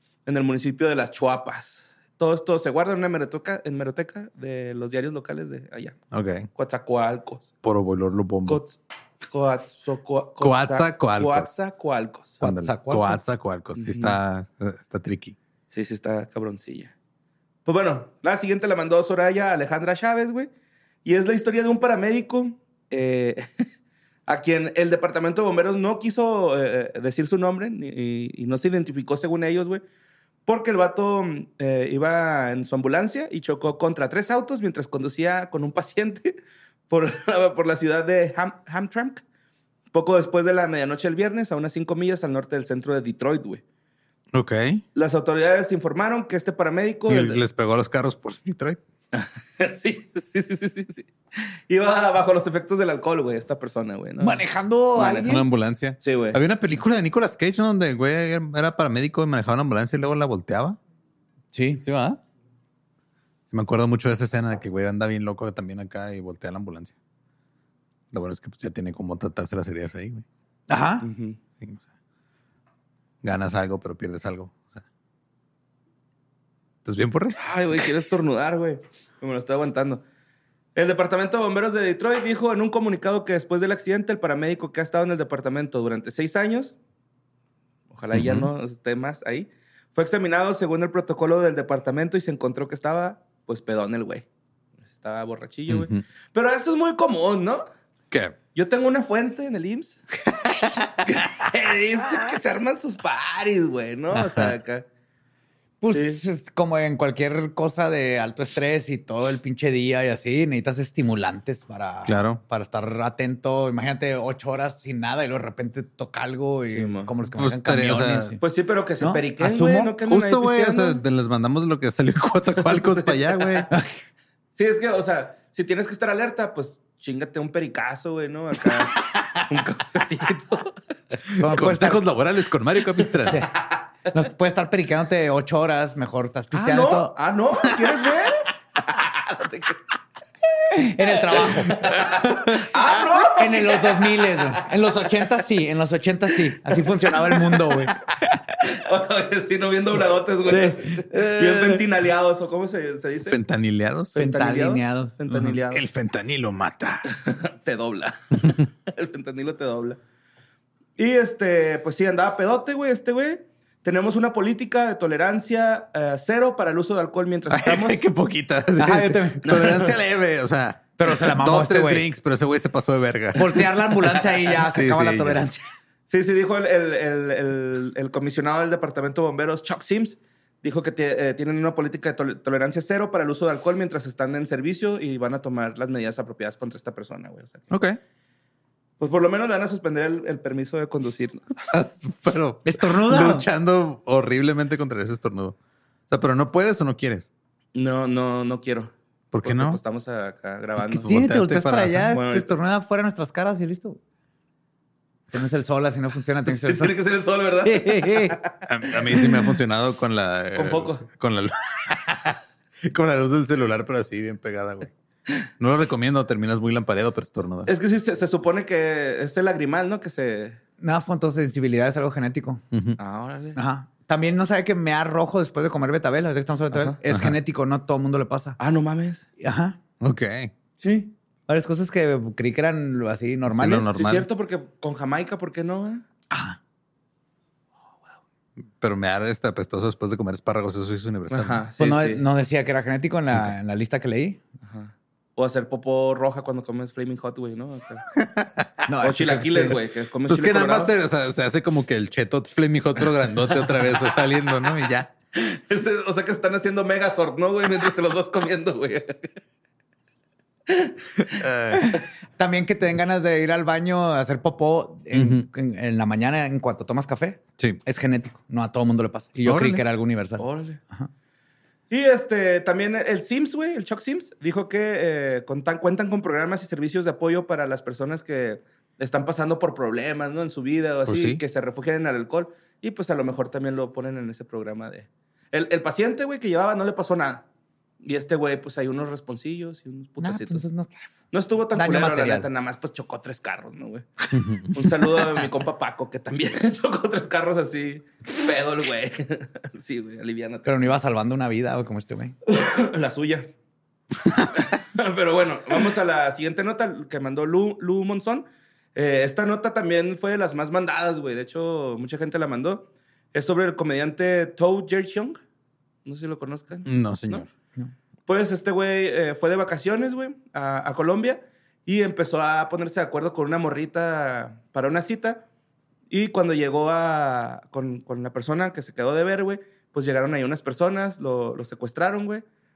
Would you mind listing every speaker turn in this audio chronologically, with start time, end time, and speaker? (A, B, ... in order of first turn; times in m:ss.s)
0:00.3-0:06.0 A
0:06.1-0:06.5 B
0:06.6-0:07.5 A
0:07.6-0:08.6 B
0:08.5-0:08.8 A
0:09.3-0:12.4 A
0:10.4-0:11.5 B
0:12.4-0:13.2 C
0:12.4-0:15.4 B
0:13.8-0:14.2 A
0:15.7-0:16.9 A
0:17.7-0:20.5 A
0:21.0-0:23.7 A
0:24.3-0:29.8 A
0:30.5-0:39.2 A
0:39.9-0:43.6 A
0:44.3-0:44.8 B
0:45.0-0:47.4 A
0:47.1-0:48.8 B
0:49.1-0:51.1 A
0:51.7-0:54.4 A
0:54.2-0:55.5 C
0:55.0-0:55.3 A
0:55.2-1:00.8 B
0:56.0-0:56.4 A
1:01.5-1:01.8 C
1:01.8-1:02.2 B
1:03.5-1:06.9 B
1:08.1-1:10.2 B
1:10.7-1:11.1 C
1:11.0-1:11.4 A
1:13.2-1:14.8 B
1:16.8-1:17.9 B
1:17.4-1:20.0 A
1:20.8-1:26.8 A
1:27.9-1:34.3 A
1:28.1-1:28.5 B
1:34.9-1:37.6 A
1:35.7-1:36.0 B
1:38.1-1:38.4 B
1:38.5-1:44.8 A
1:44.1-1:44.6 B
1:45.8-1:58.4 C
1:45.9-1:46.2 A
1:52.1-1:52.4 B
1:56.7-1:57.1 A
1:57.4-1:58.4 B
1:58.4-2:01.0 A
1:59.0-1:59.9 C
2:00.0-2:03.7 B
2:02.7-2:03.7 A
2:04.6-2:10.8 A
2:11.3-2:13.5 B
2:11.4-2:12.0 C
2:13.3-2:13.8 A
2:14.1-2:17.1 C
2:16.5-2:19.8 A
2:20.7-2:21.8 C
2:21.3-2:24.6 A
2:22.1-2:22.6 B
2:23.3-2:28.0 C
2:26.8-2:27.8 A
2:28.6-2:33.4 A
2:30.5-2:31.8 C
2:33.3-2:34.2 B
2:34.1-2:35.8 A
2:34.2-2:35.2 C
2:35.3-2:37.1 B
2:37.1-2:40.0 A
2:41.0-2:48.0 A
2:47.5-2:55.4 B
2:48.8-2:49.5 C
2:49.4-2:50.0 A
2:51.0-2:52.1 C
2:53.4-2:55.6 C
2:56.1-3:07.7 A
3:07.7-3:08.0 B
3:09.0-3:11.6 A
3:11.6-3:15.6 B
3:12.7-3:13.5 C
3:16.1-3:17.3 B
3:17.8-3:21.1 A
3:19.3-3:19.8 B
3:20.8-3:22.1 B
3:20.9-3:24.0 C
3:22.1-3:22.5 A
3:25.3-3:27.0 C
3:26.5-3:28.6 A
3:27.6-3:28.4 C
3:28.7-3:34.9 B
3:30.6-3:31.1 A
3:35.6-3:37.8 B
3:37.7-3:40.6 A
3:40.8-3:42.6 C
3:42.7-3:43.0 B
3:43.0-3:43.6 A
3:43.6-3:48.6 C
3:46.7-3:47.0 A
3:47.1-3:47.4 B
3:48.6-3:49.2 A
3:49.4-3:49.8 C
3:50.0-3:50.5 B
3:50.8-3:53.9 C
3:53.5-3:54.3 B
3:53.9-3:56.1 A
3:56.3-3:56.6 C
3:58.8-4:01.6 B
4:01.3-4:02.2 A
4:01.8-4:04.4 C
4:04.6-4:08.0 A
4:08.2-4:08.7 B
4:08.9-4:09.8 C
4:09.0-4:10.9 A
4:10.3-4:15.1 B
4:15.3-4:19.3 A
4:20.7-4:21.4 A
4:21.4-4:21.9 B
4:21.9-4:31.1 C
4:25.1-4:25.5 B
4:29.4-4:29.8 B
4:30.4-4:30.8 A
4:31.9-4:47.4 A
4:41.1-4:41.4 B
4:48.0-4:50.6 A
4:50.2-4:51.1 C
4:51.3-5:00.8 A
4:51.7-4:52.5 C
4:54.3-4:54.8 B
5:00.7-5:02.3 C
5:02.5-5:03.5 A
5:04.5-5:15.4 A
5:16.0-5:17.5 A
5:16.8-5:17.5 B
5:18.3-5:25.4 A
5:26.1-5:32.4 A